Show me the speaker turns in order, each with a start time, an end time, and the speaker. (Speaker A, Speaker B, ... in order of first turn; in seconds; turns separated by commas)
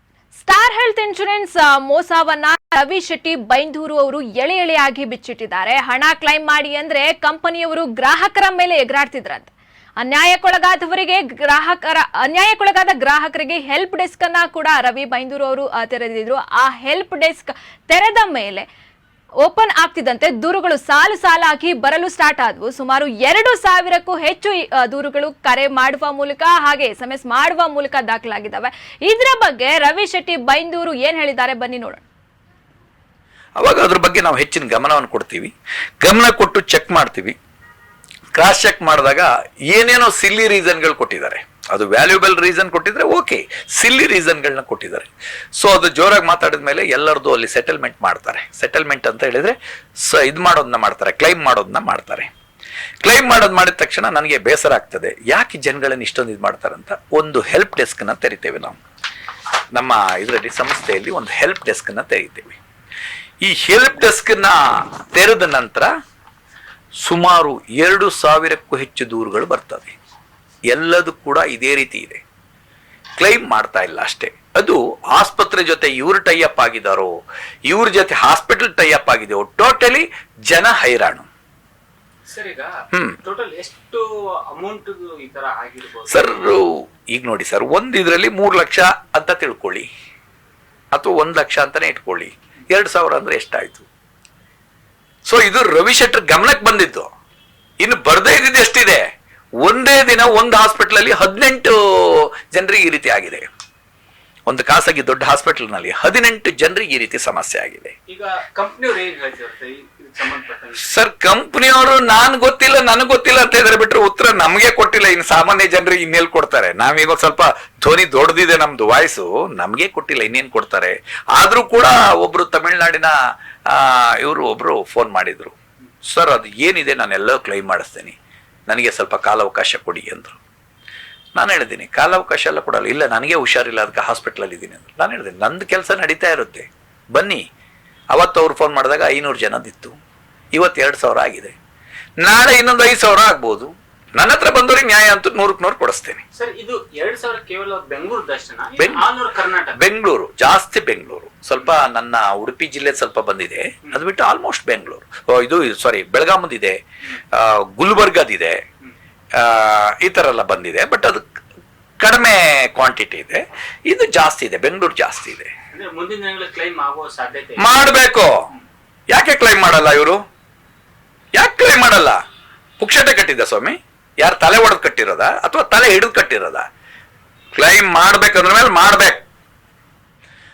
Speaker A: 0.3-18.7, Speaker A: 19.4-32.1, Speaker B: 33.6-37.4, Speaker B: 38.4-52.3, Speaker B: 53.0-58.8, Speaker B: 59.8-62.6, Speaker B: 63.4-65.9, Speaker B: 67.0-70.0, Speaker B: 70.7-72.2, Speaker B: 73.2-77.1, Speaker B: 77.7-81.3, Speaker C: 82.3-86.3, Speaker B: 82.9-83.2, Speaker B: 86.1-89.9, Speaker B: 90.9-93.9, Speaker B: 95.2-97.1, Speaker B: 97.8-99.0, Speaker B: 99.6-103.5, Speaker B: 104.5-107.9, Speaker C: 108.1-110.9, Speaker B: 110.8-123.1, Speaker B: 123.7-125.6, Speaker B: 126.1-128.2, Speaker B: 128.7-130.4, Speaker B: 131.4-137.4, Speaker B: 138.1-140.0, Speaker B: 140.5-141.6, Speaker B: 142.2-146.2, Speaker C: 146.4-149.8, Speaker B: 148.8-149.1, Speaker B: 149.8-156.8, Speaker B: 157.3-158.6, Speaker B: 159.4-161.2, Speaker B: 162.0-165.5, Speaker C: 165.7-167.7, Speaker B: 167.6-168.5, Speaker B: 169.1-170.2, Speaker B: 171.3-172.2, Speaker B: 172.8-176.7, Speaker B: 177.6-179.2